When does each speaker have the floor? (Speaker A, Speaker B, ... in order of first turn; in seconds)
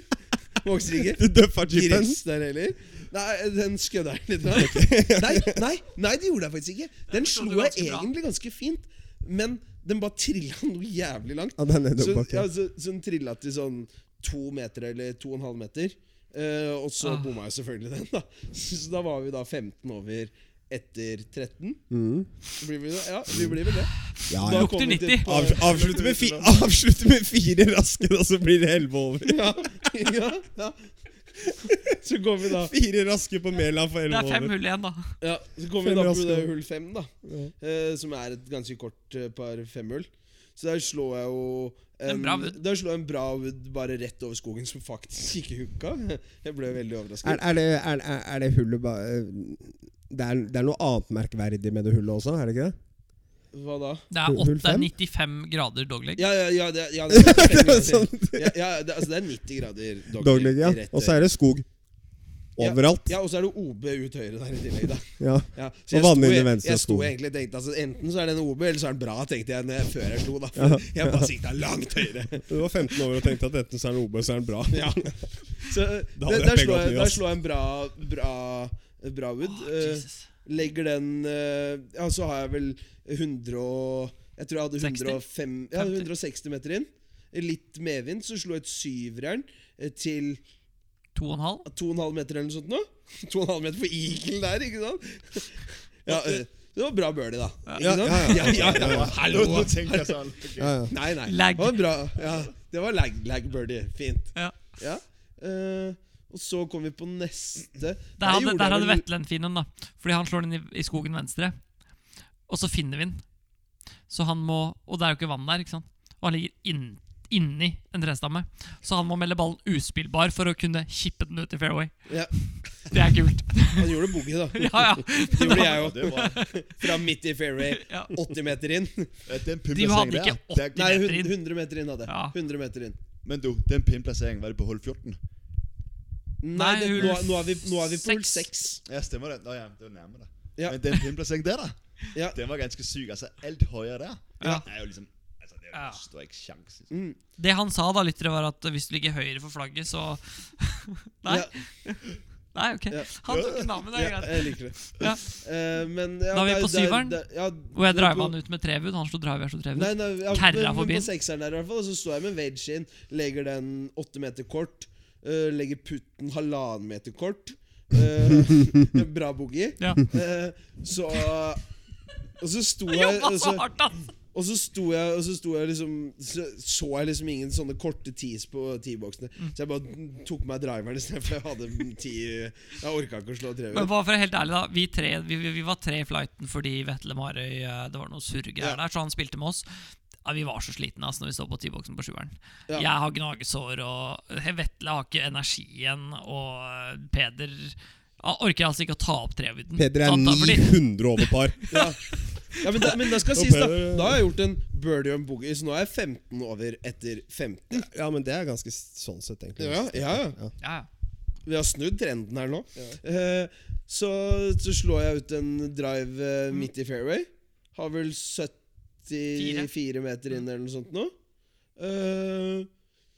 Speaker A: 0.6-21.8, 22.6-26.5, 29.2-32.7, 35.2-47.4, 53.5-54.1, 56.2-61.2, 62.6-72.5, 74.7-90.4, 91.7-100.3, 100.9-109.0, 122.1-122.3, 123.8-129.1, 130.7-133.0, 136.4-138.8, 146.9-147.2, 151.3-151.6, 152.9-158.3, 159.8-171.6, 172.4-173.7, 174.3-183.9, 201.7-207.9, 209.6-210.4, 211.5-221.1, 221.8-222.7
Speaker B: 1.0-2.2, 4.5-5.6, 11.6-12.5, 21.9-22.3, 24.3-29.7, 31.7-31.9, 32.6-34.5, 35.8-36.5, 37.2-37.5, 47.2-52.8, 54.3-54.9, 57.1-58.6, 60.2-61.7, 62.6-63.1, 65.2-67.1, 70.6-71.3, 72.5-75.2, 76.2-77.2, 97.8-99.2, 100.6-100.9, 199.8-201.7, 203.3-204.2, 207.7-210.5
Speaker C: 7.1-8.1, 17.0-17.3, 24.2-25.3, 34.1-35.1, 42.1-42.6, 54.1-56.2, 79.4-80.3, 84.8-85.2, 85.7-86.1, 91.2-91.7, 97.7-98.3, 101.3-101.8, 108.2-111.6, 112.5-113.2, 114.1-122.1, 122.8-124.0, 124.5-126.8, 127.7-128.1, 129.7-131.3, 132.1-132.3, 136.6-138.5, 144.4-144.7, 145.7-146.0, 147.4-152.0, 152.5-155.2, 156.3-157.2, 157.7-161.1, 169.8-170.1, 172.9-174.1, 183.7-189.7, 190.2-200.8, 201.7-202.9, 210.6-210.9, 219.3-219.7
Speaker D: 98.3-100.8, 125.4-126.4, 129.3-130.9, 133.2-135.2, 138.9-146.9, 153.3-153.7